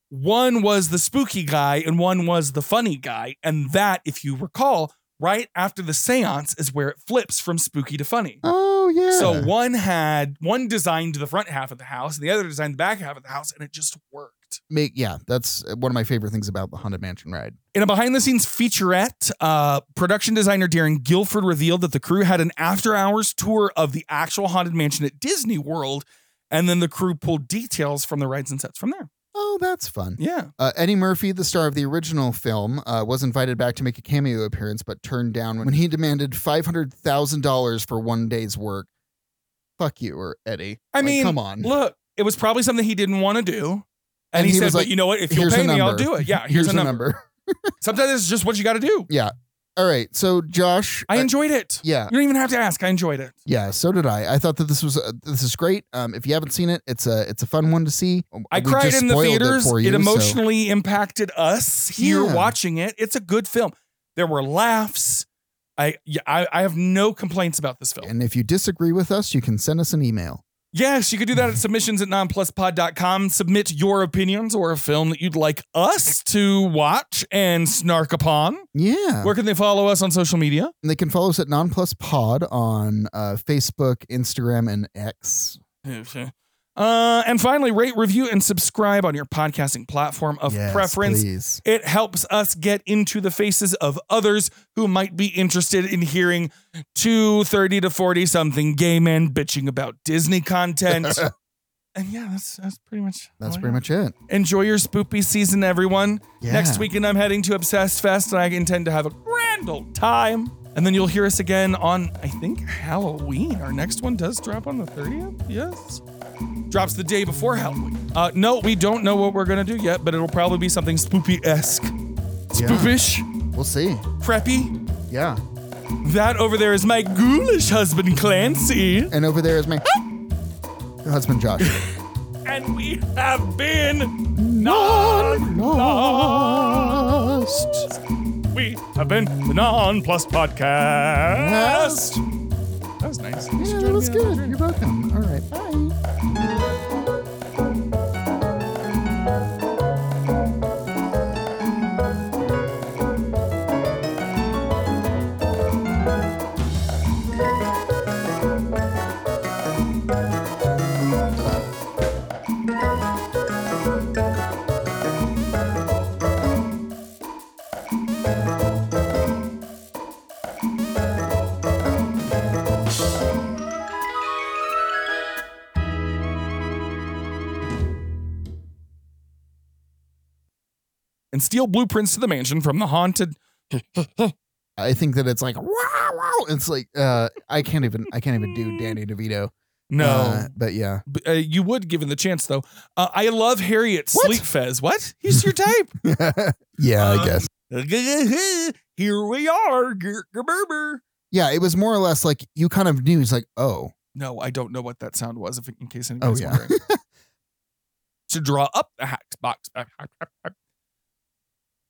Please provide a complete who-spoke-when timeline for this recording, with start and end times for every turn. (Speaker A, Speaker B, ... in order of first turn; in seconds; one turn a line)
Speaker A: 0.1-8.4
Speaker B: 8.4-9.5
Speaker A: 9.1-14.6
Speaker B: 14.7-17.6
Speaker A: 17.7-29.1
Speaker B: 29.3-38.9
Speaker A: 30.2-30.5
Speaker B: 39.8-41.7
Speaker A: 40.9-47.0
Speaker B: 44.3-47.7
Speaker A: 47.8-49.1
Speaker B: 49.1-51.3
Speaker A: 51.1-53.4
Speaker B: 51.8-52.1
Speaker B: 53.5-60.4
Speaker A: 58.5-65.3
Speaker B: 62.0-62.5
Speaker A: 65.8-68.1
Speaker B: 68.0-70.4
Speaker A: 70.7-78.7
Speaker B: 78.7-79.3
Speaker A: 79.2-80.7
Speaker B: 80.8-85.6
Speaker A: 85.8-101.2
Speaker B: 90.5-91.6
Speaker B: 100.9-101.3
Speaker A: 102.0-116.0
Speaker B: 103.4-104.2
Speaker B: 106.4-106.9
Speaker A: 116.7-121.9
Speaker A: 122.5-123.3
Speaker B: 122.5-124.1
Speaker A: 124.2-124.7
Speaker B: 125.1-125.4
Speaker A: 126.0-129.1
Speaker B: 129.1-129.8
Speaker B: 131.0-131.8
Speaker A: 131.6-131.9
Speaker A: 132.5-138.0
Speaker B: 134.3-137.9
Speaker A: 138.5-142.2
Speaker B: 141.3-142.2
Speaker A: 143.0-144.6
Speaker B: 143.6-146.0
Speaker A: 181.3-184.3
Speaker B: 184.8-191.0
Speaker A: 189.9-190.5
Speaker A: 191.1-195.9
Speaker B: 194.1-194.5
Speaker B: 195.3-197.5
Speaker A: 197.0-201.0
Speaker B: 201.3-203.9
Speaker A: 204.2-206.7
Speaker B: 206.2-207.0
Speaker A: 208.3-210.5